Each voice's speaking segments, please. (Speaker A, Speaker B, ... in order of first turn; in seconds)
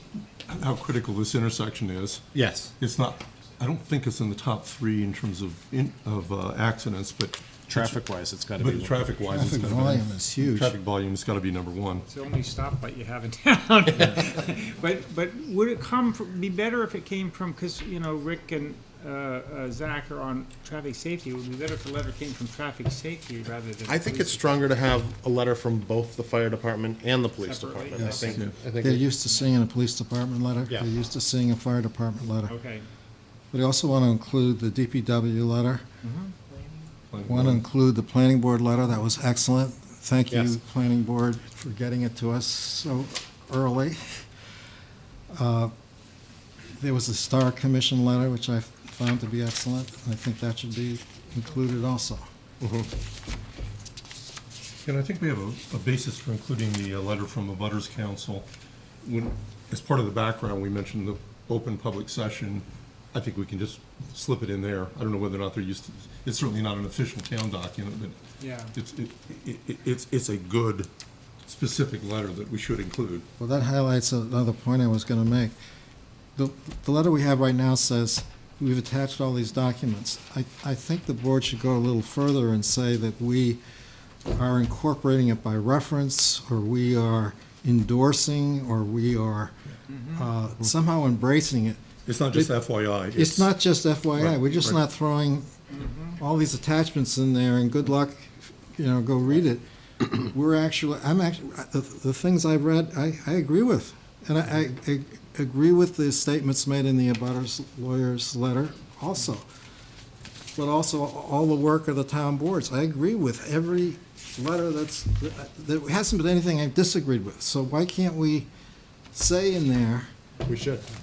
Speaker A: 0.5-2.3, 2.8-8.0, 8.6-12.1, 28.3-28.5, 37.1-37.6, 54.8-58.5, 59.0-68.2, 68.7-70.9, 71.5-73.2, 92.0-93.5, 94.2-94.8
Speaker B: 2.3-2.7, 7.7-9.0, 23.9-29.1, 40.3-40.5, 52.6-52.9, 120.5-120.8
Speaker C: 9.3-10.8, 27.9-32.6, 33.5-35.8, 37.3-44.3, 45.3-45.7, 46.8-52.2, 73.4-75.5, 76.3-83.6, 84.3-89.5, 90.1-92.5, 93.1-95.6, 96.2-109.5, 110.5-118.5, 119.1-120.1
Speaker D: 12.1-24.7, 27.4-28.4, 32.5-32.9, 36.0-36.4, 68.4-68.7, 89.9-90.3, 95.8-96.1